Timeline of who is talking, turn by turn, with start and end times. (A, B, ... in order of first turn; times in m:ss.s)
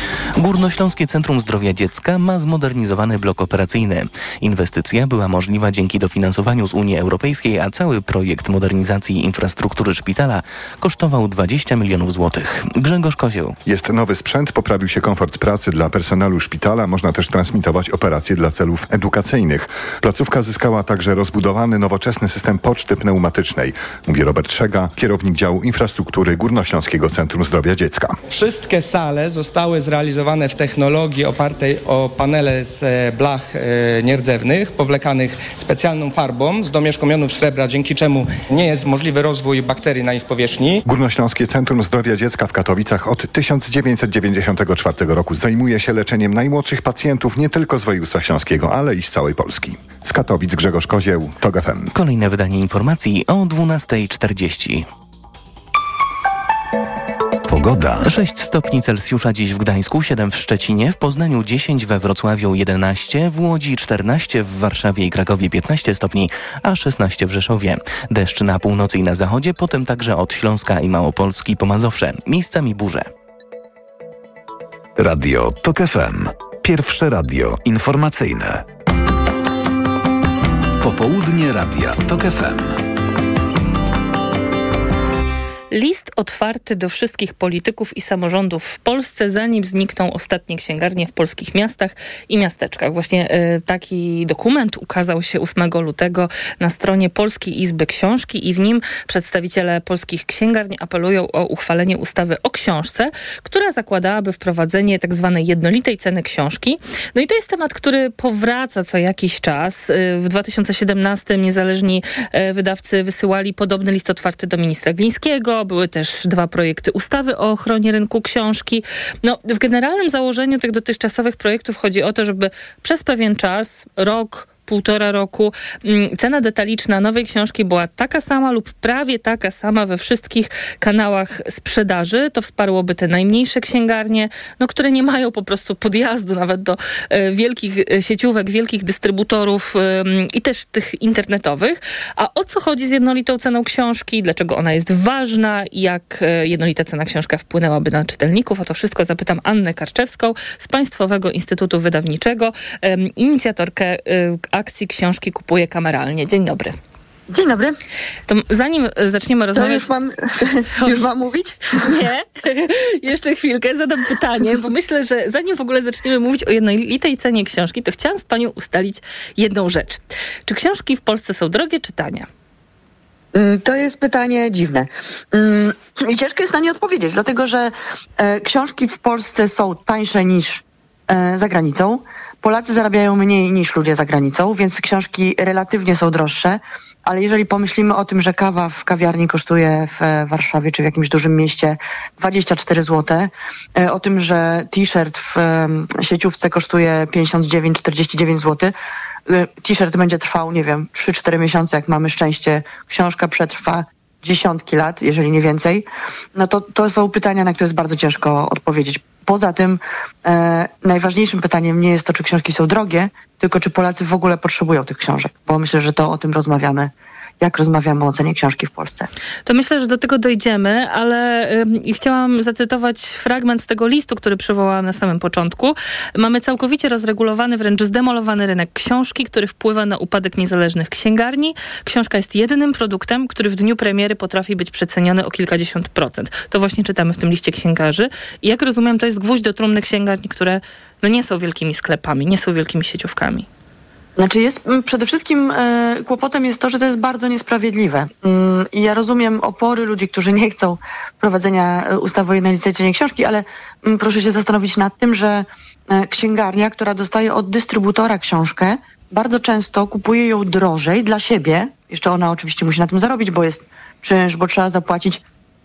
0:00.4-0:13.6 A
0:13.7-0:28.2 B
0:28.3-0:40.8 C
0:40.9-0:51.9 B
0:52.0-0:54.9 A
0:57.5-0:58.1 D
0:58.0-1:13.1 A
1:15.0-1:18.6 D
1:20.8-1:22.8 D
1:25.7-2:36.8 E
2:37.3-2:37.8 F
2:38.3-2:39.9 E
2:39.5-2:41.9 F
2:40.8-2:41.1 E
2:41.7-2:52.3 E
2:53.3-3:18.7 F
3:19.3-3:39.1 F
3:39.5-4:03.5 E
4:04.2-4:25.2 F